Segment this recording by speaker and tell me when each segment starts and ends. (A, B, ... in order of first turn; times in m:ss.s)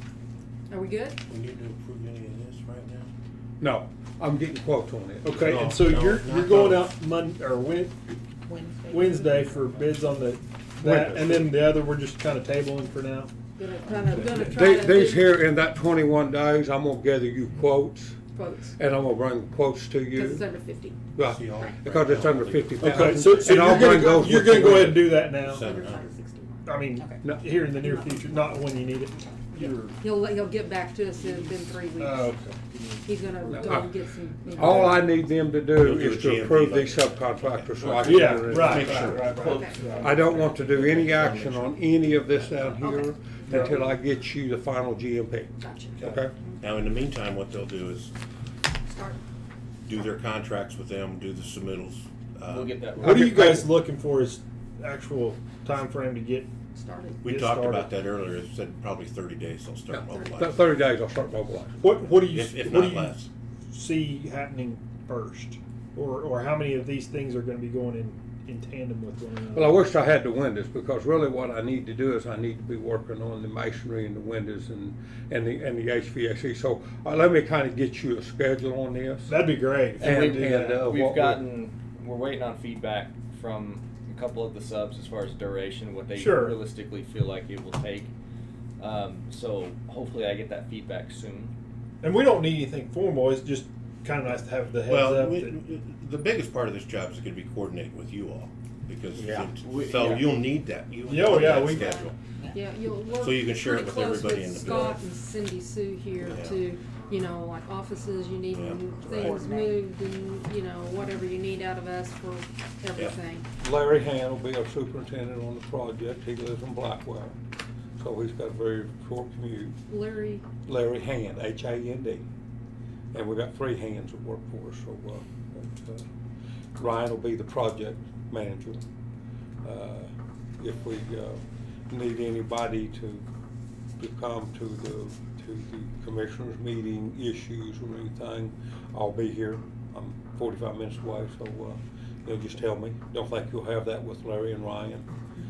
0:00.7-0:01.2 A
0:01.3-0:03.1 B
0:03.6-0:05.6 C
0:05.2-0:07.9 D
0:05.3-0:06.9 B
0:08.4-0:10.2 E
0:08.9-0:13.3 D
0:10.8-0:11.6 C
0:13.6-0:15.3 A
0:14.1-0:18.2 C
0:18.3-0:18.8 A
0:18.8-0:20.4 C
0:20.1-0:21.0 A
0:21.1-0:25.2 C
0:21.2-0:23.6 B
0:22.8-0:25.6 D
0:23.5-0:26.8 A
0:24.8-0:26.1 B
0:26.6-0:30.0 D
0:26.9-0:27.3 E
0:27.8-0:28.8 A
0:29.9-0:32.4 A
0:32.0-0:33.8 D
0:33.0-0:35.1 A
0:33.6-0:33.9 C
0:34.5-0:39.2 C
0:34.6-0:35.0 D
0:35.7-0:39.4 B
0:38.0-0:40.2 D
0:38.3-0:41.6 F
0:39.4-0:39.8 A
0:40.0-0:46.3 C
0:42.8-0:43.2 A
0:43.5-0:43.8 D
0:45.6-0:46.6 A
0:46.6-0:48.1 B
0:48.8-0:49.2 A
0:49.8-0:53.0 B
0:52.4-0:53.3 F
0:53.0-0:56.5 D
0:53.0-0:53.8 C
0:56.7-0:57.2 A
0:57.2-1:00.6 B
0:57.2-0:57.9 D
0:59.9-1:02.0 C
1:00.1-1:00.3 A
1:01.8-1:03.2 D
1:02.3-1:03.3 B
1:03.7-1:09.8 D
1:09.5-1:19.4 C
1:19.3-1:20.8 D
1:20.0-1:21.4 C
1:20.0-1:28.1 F
1:26.1-1:26.6 D
1:28.8-1:31.5 F
1:32.0-1:35.6 D
1:34.8-1:42.2 B
1:39.6-1:40.4 F
1:41.0-1:42.0 D
1:41.3-1:53.4 A
1:42.2-1:42.6 E
1:43.1-1:45.0 B
1:46.2-1:46.6 B
1:48.5-1:49.4 B
1:49.0-1:49.8 E
1:53.6-1:57.4 C
1:58.0-1:59.8 C
1:59.9-2:00.4 A
2:00.6-2:02.2 C
2:03.1-2:06.0 C
2:06.8-2:08.8 C
2:09.6-2:13.2 C
2:14.0-2:25.0 C